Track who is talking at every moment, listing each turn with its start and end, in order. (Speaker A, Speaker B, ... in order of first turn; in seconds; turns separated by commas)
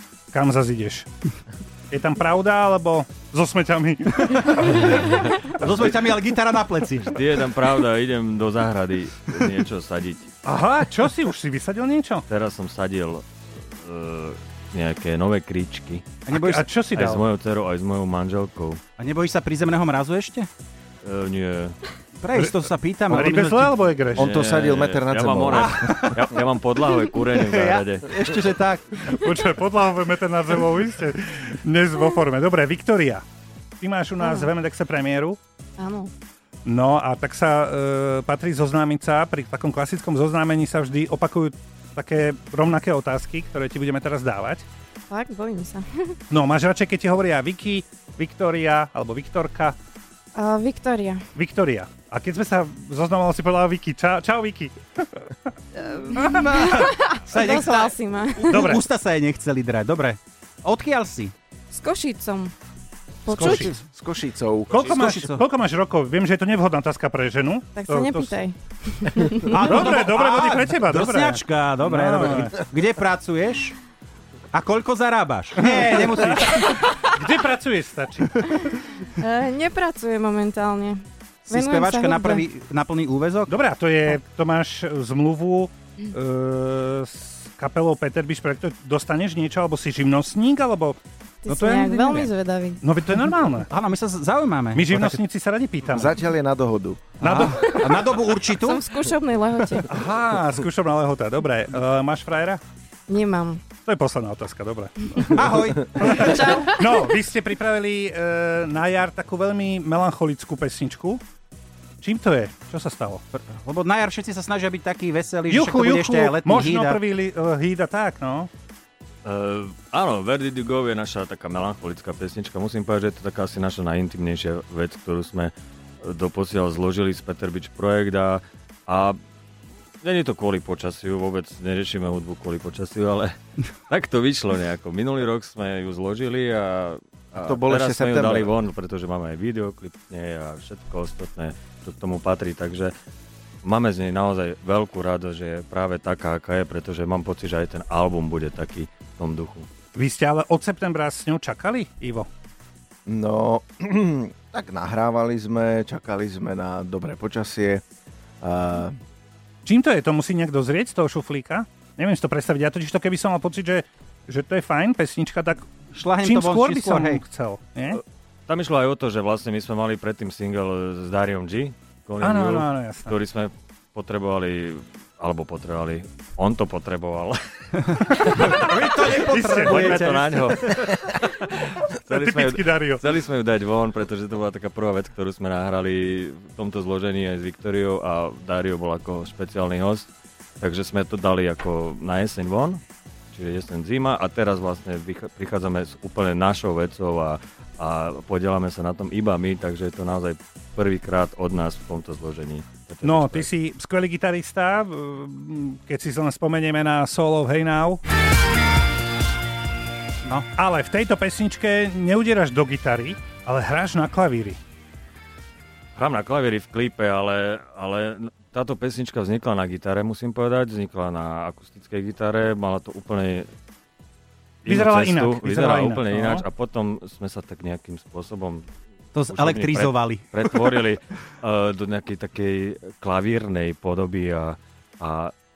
Speaker A: 0.3-1.1, Speaker A: 1.9-4.9, Speaker B: 4.7-7.2, Speaker C: 4.9-5.4, Speaker D: 7.0-10.3, Speaker A: 10.4-12.2, Speaker D: 12.3-16.2, Speaker B: 16.3-16.7, Speaker A: 16.3-17.2, Speaker D: 16.9-18.8, Speaker B: 19.0-20.5, Speaker D: 21.0-21.8, Speaker B: 22.2-23.8, Speaker A: 23.1-24.3, Speaker E: 24.1-26.1, Speaker D: 24.1-28.3, Speaker B: 25.5-26.3, Speaker B: 27.3-29.2, Speaker A: 29.0-33.2, Speaker A: 33.8-35.4, Speaker C: 34.2-34.5, Speaker C: 35.8-36.1, Speaker A: 36.6-44.6, Speaker C: 45.1-46.2, Speaker A: 46.3-49.8, Speaker C: 50.3-51.2, Speaker A: 51.3-55.3, Speaker B: 55.8-61.3, Speaker C: 56.1-58.7, Speaker A: 58.5-58.8, Speaker C: 61.7-62.5, Speaker C: 63.2-63.7, Speaker E: 63.3-65.2, Speaker A: 63.3-63.7, Speaker A: 64.7-68.4, Speaker B: 64.9-65.4, Speaker C: 67.7-69.6, Speaker B: 69.5-73.8, Speaker A: 69.5-72.5, Speaker B: 74.5-76.8, Speaker A: 75.6-78.5, Speaker C: 78.6-82.4, Speaker B: 81.5-83.5, Speaker A: 83.5-93.7, Speaker C: 91.4-92.8, Speaker B: 93.7-95.1, Speaker A: 94.7-96.1, Speaker E: 95.9-97.1, Speaker A: 97.2-97.8, Speaker B: 97.2-98.8, Speaker C: 97.5-99.9, Speaker A: 99.9-102.6, Speaker C: 103.1-103.7, Speaker A: 103.7-111.2, Speaker C: 105.1-105.3, Speaker B: 105.3-106.7, Speaker C: 106.1-107.0, Speaker A: 112.0-113.2, Speaker B: 113.3-117.0, Speaker A: 115.5-118.5, Speaker D: 119.2-129.2, Speaker D: 130.0-133.3, Speaker D: 133.9-142.9, Speaker E: 137.3-138.5, Speaker D: 143.6-149.7, Speaker A: 149.9-152.3, Speaker E: 153.1-157.8, Speaker E: 158.4-159.0, Speaker A: 159.7-165.7, Speaker B: 165.9-167.2, Speaker A: 166.2-168.0, Speaker D: 167.9-203.5, Speaker A: 172.2-173.2, Speaker B: 178.0-180.9, Speaker A: 179.1-180.0, Speaker A: 182.1-183.0, Speaker A: 203.0-208.0, Speaker A: 210.6-214.6, Speaker D: 215.9-223.5, Speaker D: 224.6-228.7, Speaker A: 224.7-226.4, Speaker B: 229.1-230.8, Speaker D: 229.2-235.3